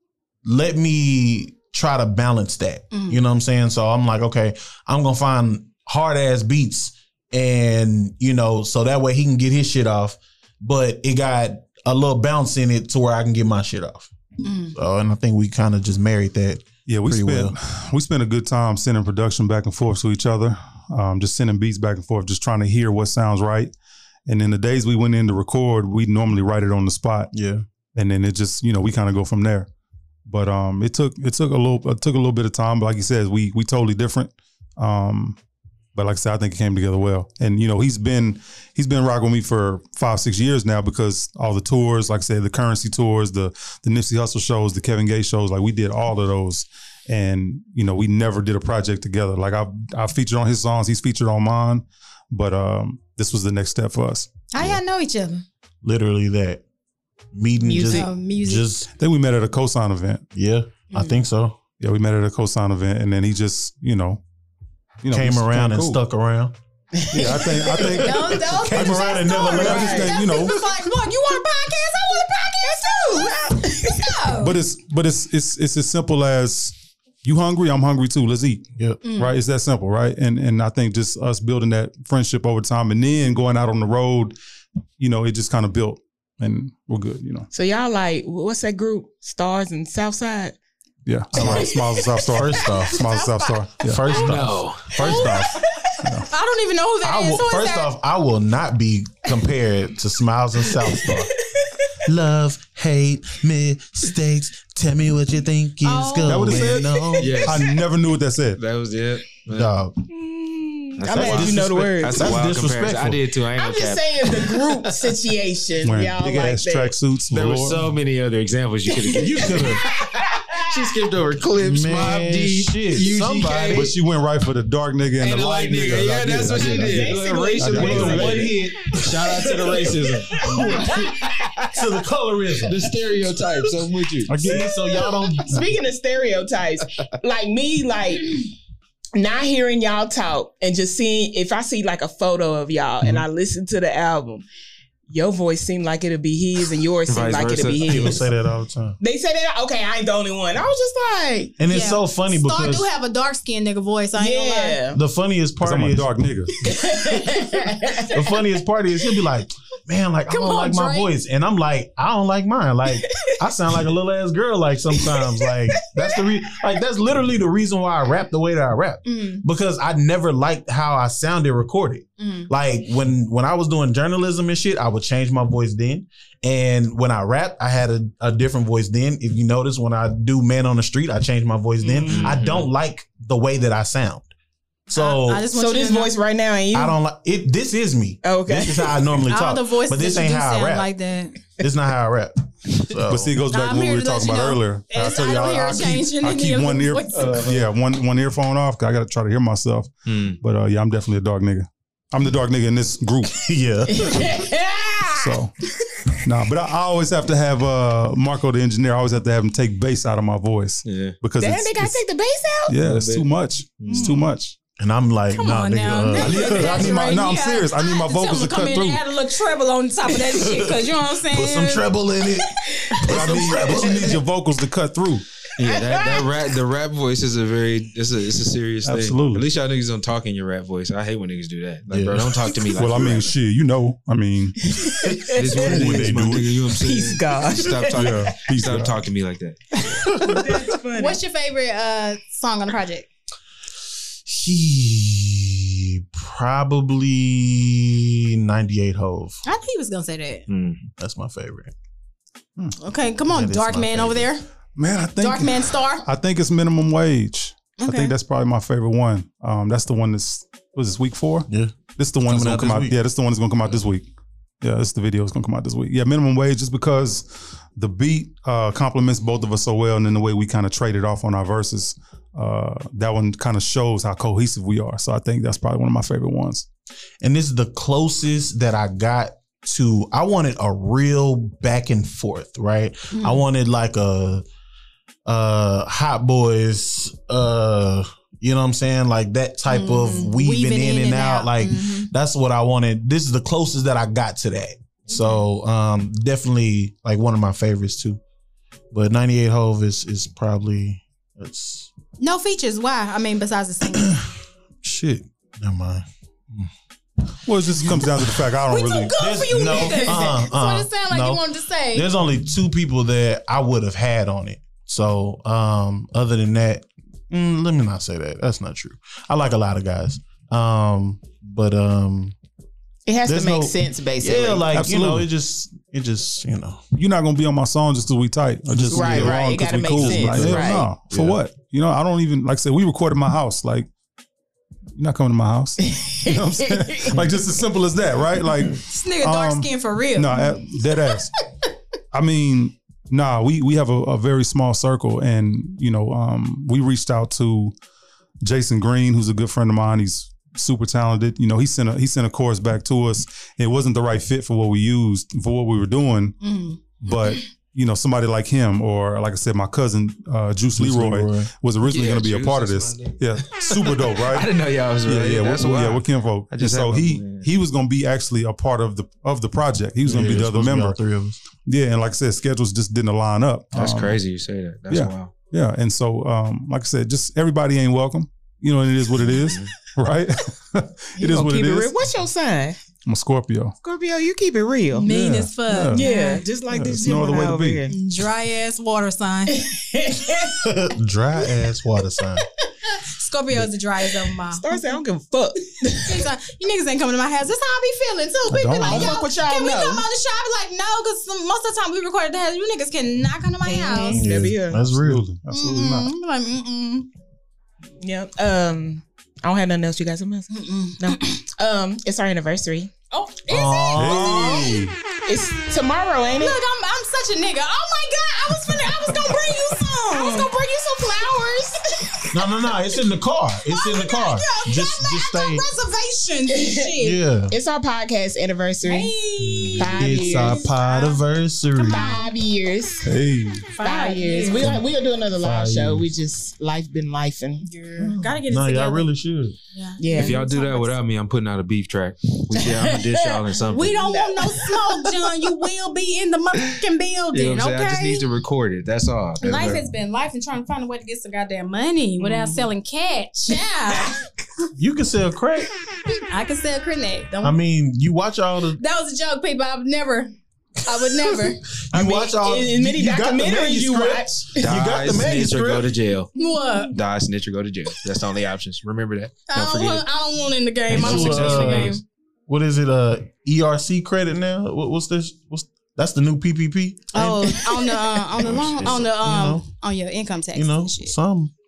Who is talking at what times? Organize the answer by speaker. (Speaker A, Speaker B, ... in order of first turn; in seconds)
Speaker A: 0.4-14.1, 14.7-17.6, 27.3-27.6, 55.8-56.6, 57.3-58.9, 60.3-61.6, 65.1-66.5, 68.0-70.2, 91.3-91.7, 92.3-93.1, 93.8-95.6, 97.0-101.3, 102.0-107.5, 109.5-110.0, 111.1-113.2, 119.1-119.8, 121.6-124.0, 127.6-129.9, 130.4-132.9, 134.3-135.7, 147.8-149.0, 151.6-152.9, 154.9-156.1, 157.0-157.4, 158.0-184.3, 184.9-185.5, 186.7-190.9, 191.6-193.3, 203.4-204.4, 214.8-217.0, 220.3-224.2, 231.9-232.5, 235.0-236.5, 240.0-240.6, 244.3-249.4, 251.0-251.7, 253.3-254.3, 261.5-263.0, 277.2-284.4, 285.3-298.2, 298.9-301.9, 304.8-306.7, 307.8-308.3, 309.2-311.4, 311.9-322.4, 323.2-326.8, 328.7-331.4, 360.7-361.5, 370.0-371.4, 390.6-392.4, 404.1-405.2, 413.5-414.8, 422.3-425.7, 427.0-427.6, 430.0-432.2, 435.4-436.1, 438.0-439.6, 454.8-455.7, 457.4-458.8, 461.9-465.9, 470.9-472.0, 472.5-477.7, 478.4-479.6, 480.6-481.5
Speaker B: 2.9-3.2, 14.4-14.8, 54.5-55.5, 57.7-58.7, 67.7-74.6, 79.0-79.3, 93.0-93.5, 95.0-95.6, 96.3-97.9, 105.8-107.1, 151.7-154.8, 160.3-161.1, 169.1-169.4, 172.2-172.5, 184.9-186.1, 189.3-191.4, 193.5-197.5, 213.9-214.2, 215.3-221.9, 240.3-243.1, 249.4-250.5, 252.8-254.4, 255.2-256.1, 257.8-258.1, 283.1-283.4, 289.7-292.1, 295.1-295.4, 302.2-304.2, 308.7-312.1, 338.9-341.0, 356.4-357.4, 384.9-386.4, 387.9-389.7, 392.9-394.9, 396.0-404.3, 405.5-407.1, 410.5-411.4, 413.1-414.7, 416.4-422.4, 423.7-427.2, 428.8-431.2, 431.8-432.3, 433.7-434.8, 437.6-439.1, 439.7-440.9, 443.7-448.3, 449.4-454.2, 456.3-457.6, 458.8-460.3, 460.8-461.6, 466.4-467.0, 469.5-472.0, 477.1-481.1
Speaker C: 16.9-23.7, 24.3-27.3, 27.9-29.7, 30.3-35.4, 36.0-54.7, 59.0-60.2, 61.8-64.2, 65.0-66.0, 67.1-70.7, 74.3-78.7, 79.2-84.3, 85.0-87.5, 91.1-94.1, 96.0-96.3, 106.2-108.6, 115.8-117.9, 123.7-128.5, 134.3-134.7, 155.6-156.7, 193.0-203.5, 205.1-205.5, 206.2-212.0, 212.7-214.6, 216.2-219.0, 223.0-225.2, 228.8-229.4, 232.8-235.0, 235.6-236.5, 237.9-239.0, 254.8-264.1, 264.6-276.7, 307.5-309.1, 324.7-325.3, 326.9-333.9, 335.0-341.3, 342.1-347.7, 348.4-356.4, 357.0-364.5, 365.0-371.0, 371.6-374.2, 374.9-382.1, 383.1-383.8, 385.0-386.1, 386.7-387.8, 398.5-399.2, 404.9-406.1, 413.9-415.0, 433.1-433.7
Speaker D: 57.7-58.1, 67.0-67.8, 72.7-74.1, 87.5-90.6, 91.3-92.8, 95.5-96.0, 100.8-101.7, 107.2-107.5, 110.1-112.4, 113.5-116.9, 118.9-120.9, 126.5-128.6, 130.3-131.2, 134.9-138.4, 139.2-144.4, 145.1-148.3, 149.0-151.5, 154.2-155.0, 156.6-158.4, 163.0-163.4, 165.0-166.3, 181.8-182.4, 185.5-186.9, 188.2-189.1, 203.9-205.4, 211.4-212.8, 225.7-226.3, 234.7-235.7, 236.8-238.4, 239.7-241.2, 323.1-324.7, 328.9-330.9, 335.9-337.2, 381.2-382.8, 383.8-385.1, 385.9-388.0, 389.6-390.6, 394.4-396.3, 398.8-400.1, 403.6-404.8, 408.0-412.9, 415.3-416.6, 419.4-422.3, 426.5-427.0, 427.5-429.1, 429.8-430.7, 431.8-433.1, 433.8-437.6, 440.0-440.4, 442.5-445.6, 454.0-454.3, 461.9-464.6, 477.7-478.1
Speaker E: 94.1-95.2, 107.2-107.7, 108.6-109.7, 111.0-115.1, 117.3-123.9, 125.2-131.8, 132.7-134.6, 147.1-148.2, 182.1-182.7, 197.2-197.6, 200.1-200.4, 210.8-211.2, 212.8-213.3, 213.8-214.1, 225.6-233.3, 235.3-239.6, 250.5-250.8, 361.8-367.5, 373.8-375.3, 379.4-379.7, 429.5-430.0, 440.1-444.0, 447.3-449.8, 464.6-466.4, 466.9-470.1, 470.9-472.0